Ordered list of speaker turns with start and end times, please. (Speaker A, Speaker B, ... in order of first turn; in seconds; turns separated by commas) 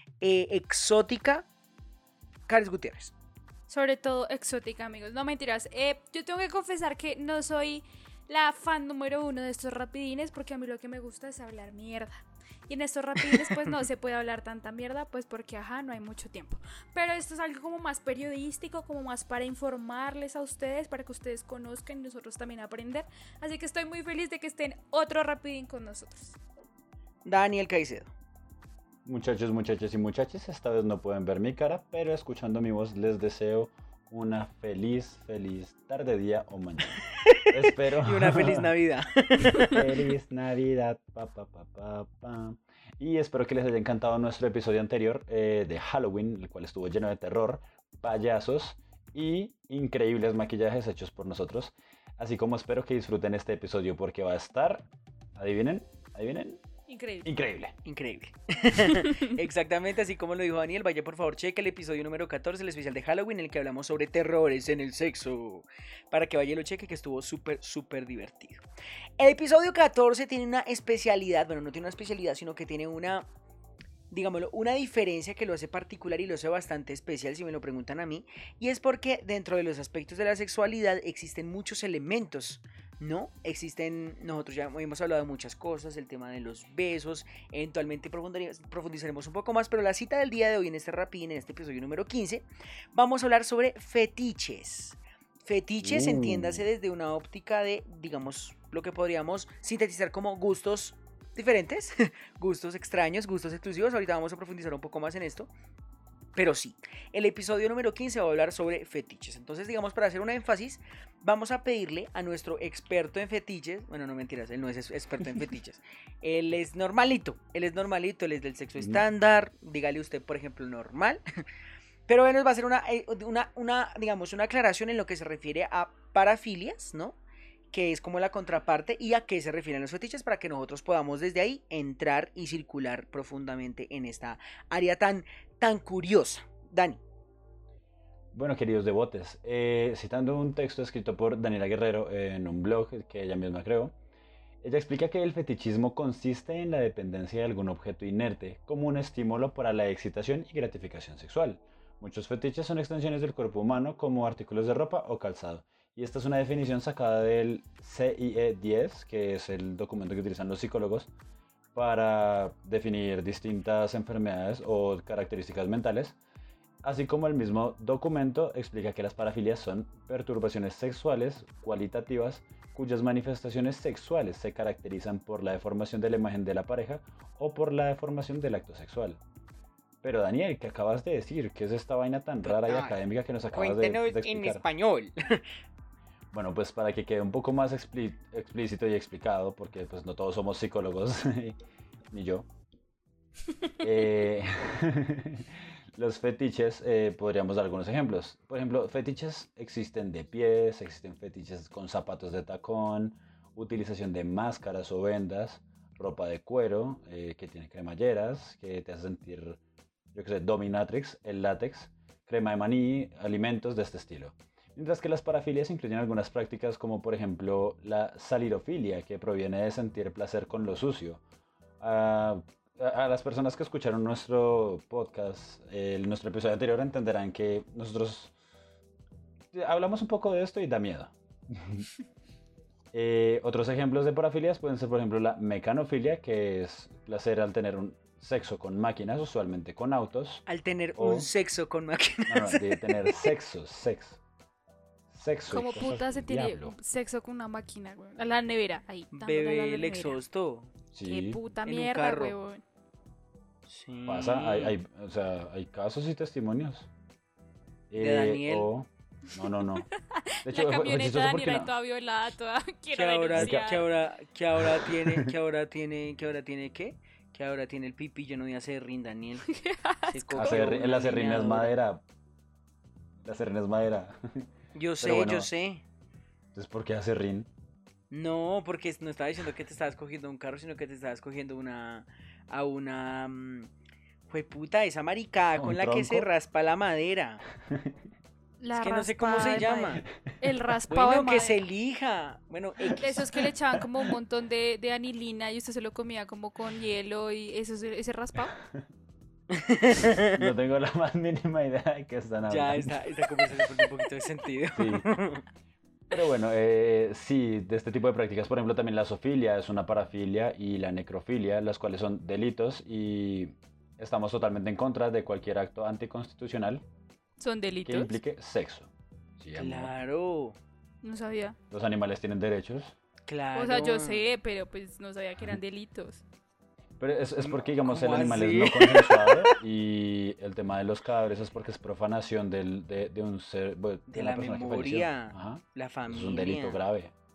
Speaker A: 0.2-1.5, Speaker A: 2.5-3.1, Speaker B: 3.7-26.4, Speaker A: 27.2-28.1, Speaker C: 29.1-38.7, Speaker A: 37.1-39.9, Speaker C: 39.5-56.6, Speaker B: 56.9-57.3, Speaker C: 57.2-57.7, Speaker A: 57.8-68.6, Speaker A: 69.2-73.3, Speaker A: 74.1-105.5, Speaker C: 95.8-96.6, Speaker A: 106.3-121.2, Speaker A: 122.1-127.2, Speaker A: 127.7-137.0, Speaker C: 138.3-143.9, Speaker C: 144.6-161.1, Speaker C: 161.7-166.2, Speaker C: 166.8-179.2, Speaker C: 180.0-184.6, Speaker A: 182.4-185.4, Speaker C: 186.3-191.6, Speaker C: 192.1-192.5, Speaker C: 193.8-209.6, Speaker C: 210.1-221.2, Speaker C: 221.8-228.3, Speaker C: 229.5-231.9, Speaker C: 232.9-241.3, Speaker A: 240.5-243.2, Speaker C: 242.3-244.2, Speaker C: 245.1-246.7, Speaker B: 245.5-250.2, Speaker A: 249.1-250.7, Speaker C: 250.9-251.4, Speaker B: 251.0-252.6, Speaker A: 251.6-252.3, Speaker A: 253.7-254.8, Speaker C: 254.1-256.9, Speaker C: 257.9-259.9, Speaker A: 258.0-258.7, Speaker B: 259.3-263.9, Speaker C: 260.4-261.7, Speaker A: 262.9-269.4, Speaker C: 263.3-263.8, Speaker C: 264.6-265.3, Speaker B: 269.4-270.6, Speaker A: 270.1-271.7, Speaker C: 270.4-272.0, Speaker C: 273.2-274.5, Speaker A: 274.7-275.8, Speaker C: 275.0-275.5, Speaker C: 276.5-277.5, Speaker A: 278.1-283.7, Speaker A: 284.3-287.4, Speaker C: 285.6-286.3, Speaker C: 287.6-288.0, Speaker B: 288.6-291.6, Speaker A: 288.7-290.0, Speaker A: 290.9-293.2, Speaker B: 293.0-298.6, Speaker C: 293.4-293.9, Speaker A: 299.5-300.4, Speaker C: 300.3-302.9, Speaker A: 302.5-305.4, Speaker C: 304.8-305.1, Speaker C: 306.1-316.8, Speaker B: 317.4-318.2, Speaker C: 317.8-319.9, Speaker A: 319.5-320.6, Speaker B: 321.0-321.6, Speaker C: 321.7-322.9, Speaker A: 323.3-324.3, Speaker B: 323.5-326.2, Speaker C: 327.0-337.1, Speaker A: 327.4-329.5, Speaker A: 334.1-336.8